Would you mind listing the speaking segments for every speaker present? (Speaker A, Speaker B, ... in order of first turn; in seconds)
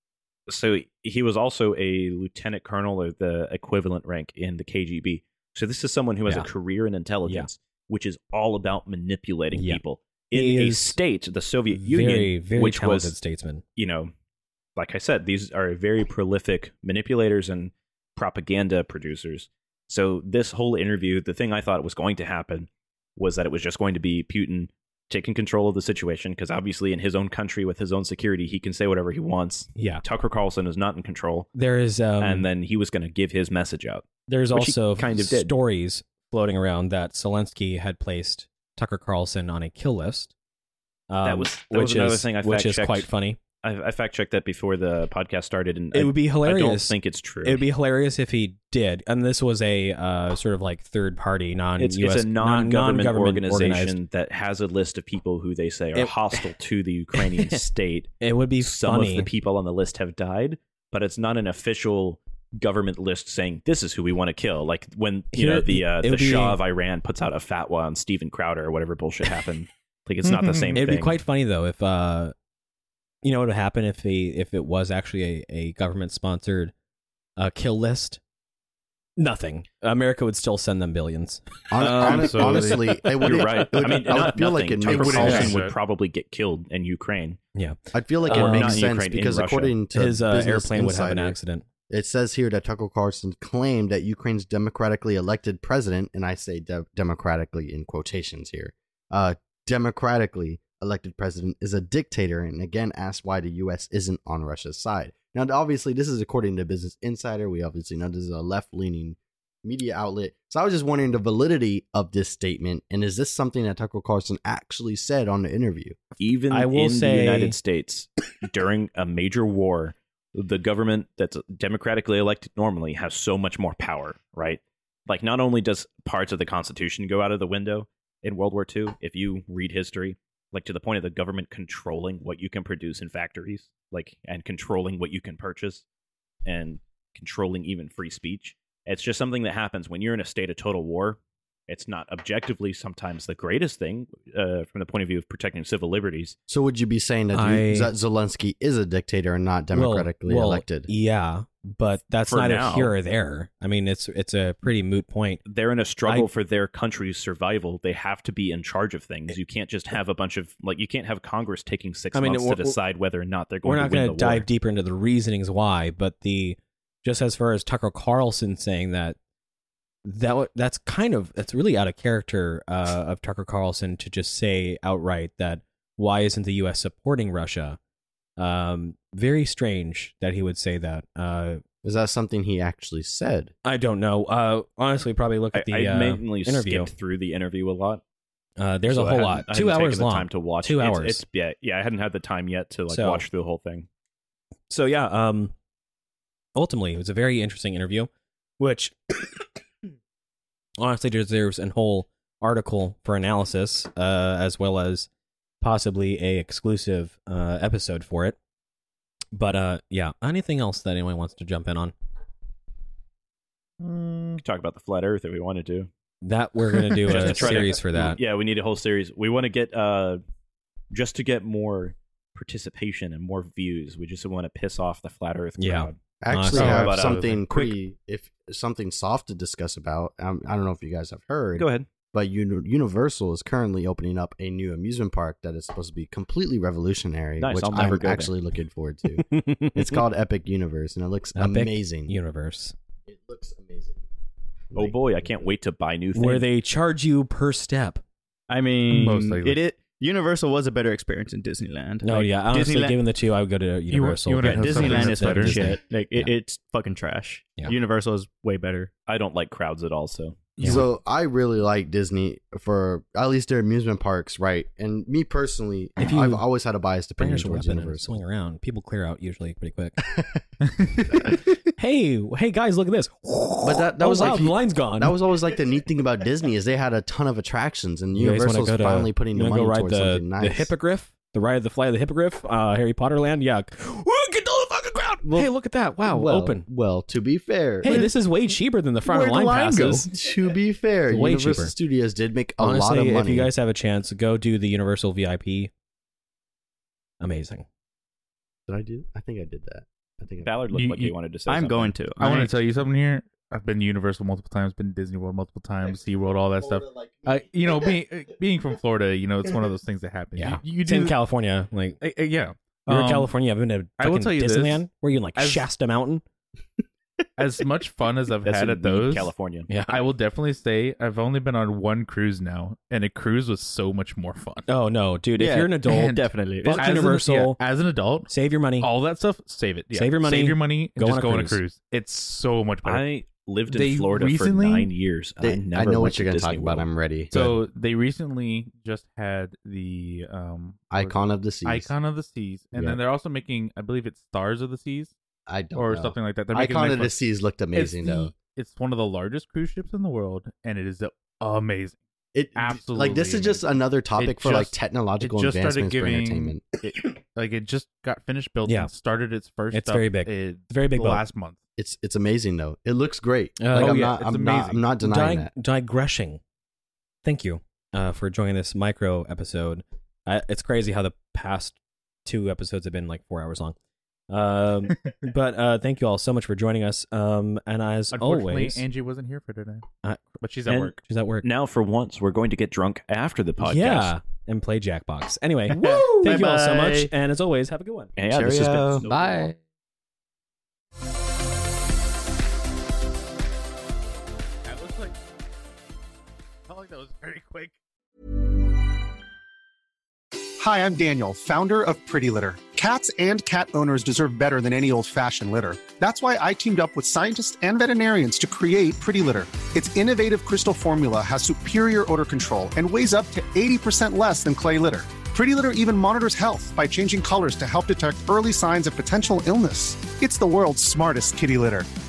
Speaker A: 0.5-13.2, 13.8-14.1, 14.8-31.5, 32.2-35.5, 41.2-43.1, 43.6-47.6, 51.8-71.2, 81.8-87.4, 88.3-89.7, 116.2-135.8, 136.4-146.4, 152.3-152.9, 155.5-164.5, 185.5-188.0, 188.9-193.9, 214.4-215.9, 217.1-220.2, 220.9-226.0, 226.6-227.2, 231.6-231.9, 237.4-238.3, 244.8-246.5, 259.1-260.5, 300.4-301.9, 318.4-319.7, 332.8-336.9, 381.4-384.1, 388.2-389.1
Speaker B: 9.5-9.8, 10.3-11.0, 11.7-13.6, 29.8-30.0, 31.6-32.5, 34.3-40.3, 41.1-43.4, 45.9-54.0, 56.0-56.5, 57.1-57.6, 58.2-59.3, 65.3-66.6, 70.8-72.3, 73.2-76.7, 77.4-78.2, 79.2-82.0, 85.2-85.5, 87.5-88.8, 89.9-91.7, 116.5-117.6, 147.3-147.9, 149.7-155.4, 162.2-162.8, 163.6-169.2, 170.1-177.8, 178.4-181.6, 183.7-186.9, 188.6-191.2, 192.9-193.2, 194.7-195.5, 196.6-198.1, 198.6-199.4, 200.8-205.1, 205.6-208.4, 209.3-211.9, 216.2-218.2, 225.6-227.7, 239.3-239.8, 241.4-242.8, 246.2-248.0, 252.0-256.3, 266.0-266.4, 267.2-270.0, 271.1-275.2, 278.2-286.7, 287.8-290.1, 291.1-291.7, 292.6-295.7, 297.2-297.7, 310.4-312.0, 312.9-316.2, 319.7-320.1, 324.7-327.6, 328.3-328.9, 329.9-331.6, 358.7-358.9, 359.7-361.2, 363.6-364.2, 365.0-366.4, 367.2-373.8, 374.3-378.8, 380.0-381.5, 383.6-388.1
Speaker C: 81.7-85.6, 87.9-91.4, 91.9-116.0, 146.5-150.9, 181.8-183.5, 226.2-242.1, 243.1-244.1, 244.7-245.5, 260.6-268.1, 270.1-270.4, 273.6-280.7, 285.2-285.5, 286.1-288.0, 289.8-293.5, 298.7-300.5, 306.6-308.0, 335.4-337.6, 340.9-341.9, 342.7-343.0, 345.5-348.3, 352.3-356.8, 361.8-365.5, 388.2-389.1
Speaker D: 81.9-82.9, 84.9-85.8, 213.8-214.4, 226.6-227.0, 248.9-249.6, 253.9-255.8, 287.9-288.2, 289.1-290.1, 300.7-301.1, 302.2-311.2, 312.0-313.3, 314.0-315.7, 317.4-324.7, 325.9-333.0, 333.7-334.9, 337.3-345.1, 345.8-347.1, 347.7-352.0, 352.6-361.6, 363.7-364.9, 378.1-379.9, 380.4-380.9, 389.1-389.5, 394.6-395.2, 396.7-397.8
Speaker E: 248.5-253.0, 254.4-258.9, 301.5-302.6, 325.4-327.2, 386.3-387.1
Speaker F: 400.6-421.9